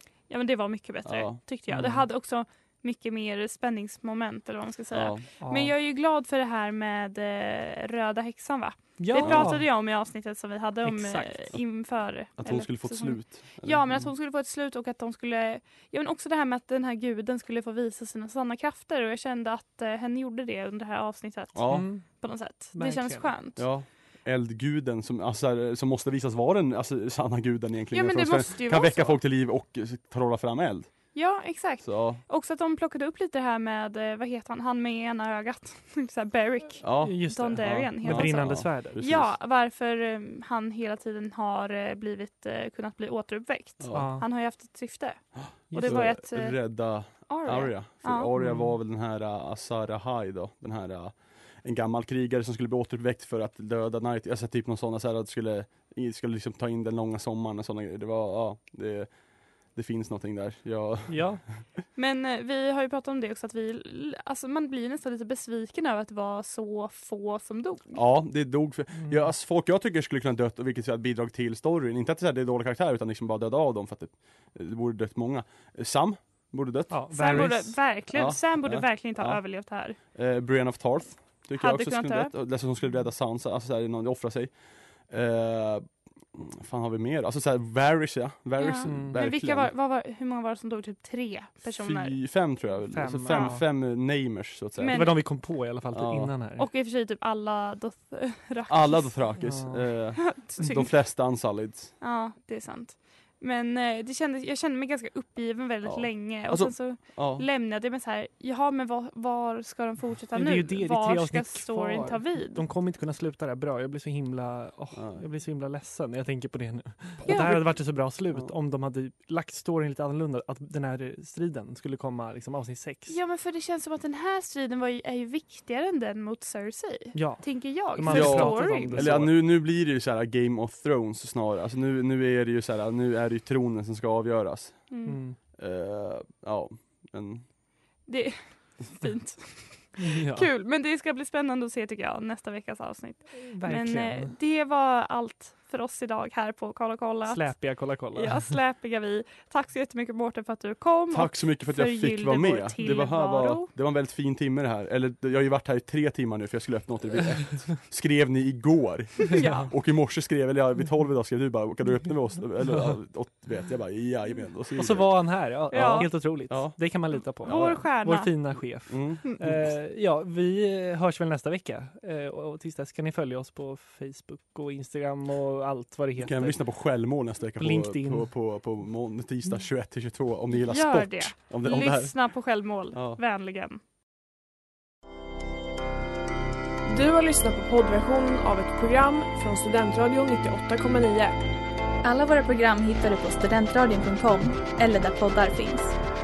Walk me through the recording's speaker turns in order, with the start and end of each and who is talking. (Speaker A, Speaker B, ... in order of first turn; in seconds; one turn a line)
Speaker A: 0.3-23.6
Speaker B: 1.1-1.4
Speaker C: 1.7-2.0
Speaker B: 4.9-5.2
Speaker C: 5.4-5.7
Speaker C: 9.0-9.6
Speaker B: 9.2-9.5
Speaker C: 10.8-11.4
Speaker B: 12.4-14.1
Speaker B: 21.6-21.9
Speaker C: 21.7-22.1
Speaker C: 22.8-23.3
Speaker B: 23.6-30.9
Speaker A: 27.9-29.2
Speaker A: 31.1-46.6
Speaker B: 31.8-32.2
Speaker B: 36.8-39.3
Speaker C: 37.0-39.0
Speaker B: 43.8-44.1
Speaker C: 43.9-44.2
Speaker B: 45.4-59.1
Speaker C: 45.7-46.1
Speaker A: 47.3-48.3
Speaker C: 48.4-48.8
Speaker B: 59.7-61.5
Speaker C: 61.1-61.4
Speaker A: 62.0-68.0
Speaker B: 67.9-79.4
Speaker C: 69.0-69.2
Speaker C: 76.9-77.8
Speaker A: 77.1-80.0
Speaker B: 80.0-84.5
Speaker A: 81.6-82.3
Speaker B: 85.1-89.7
Speaker A: 88.6-92.2
Speaker C: 88.9-89.2
Speaker B: 91.6-95.0
Speaker C: 92.9-93.6
Speaker A: 93.3-93.5
Speaker A: 94.8-95.1
Speaker C: 94.9-96.7
Speaker B: 95.9-96.3
Speaker A: 96.6-99.2
Speaker B: 98.7-101.9
Speaker C: 99.4-99.8
Speaker A: 100.2-100.9
Speaker A: 102.0-112.6
Speaker B: 105.8-107.4
Speaker C: 110.3-123.2
Speaker B: 114.9-115.2
Speaker A: 117.2-117.7
Speaker A: 123.1-129.2
Speaker C: 127.1-129.4
Speaker B: 128.1-134.9
Speaker A: 134.9-135.2
Speaker C: 135.1-135.4
Speaker B: 135.6-137.4
Speaker A: 138.1-153.7
Speaker C: 140.0-140.5
Speaker C: 143.4-144.3
Speaker C: 147.3-148.6
Speaker B: 151.1-167.8
Speaker C: 159.3-159.7
Speaker A: 159.3-159.6
Speaker C: 164.8-176.6
Speaker A: 165.7-166.1
Speaker A: 167.4-168.3
Speaker B: 168.9-169.7
Speaker B: 176.2-182.1
Speaker C: 177.6-178.3
Speaker A: 180.6-183.8
Speaker B: 182.9-183.2
Speaker D: 186.8-191.4
Speaker E: 192.0-195.9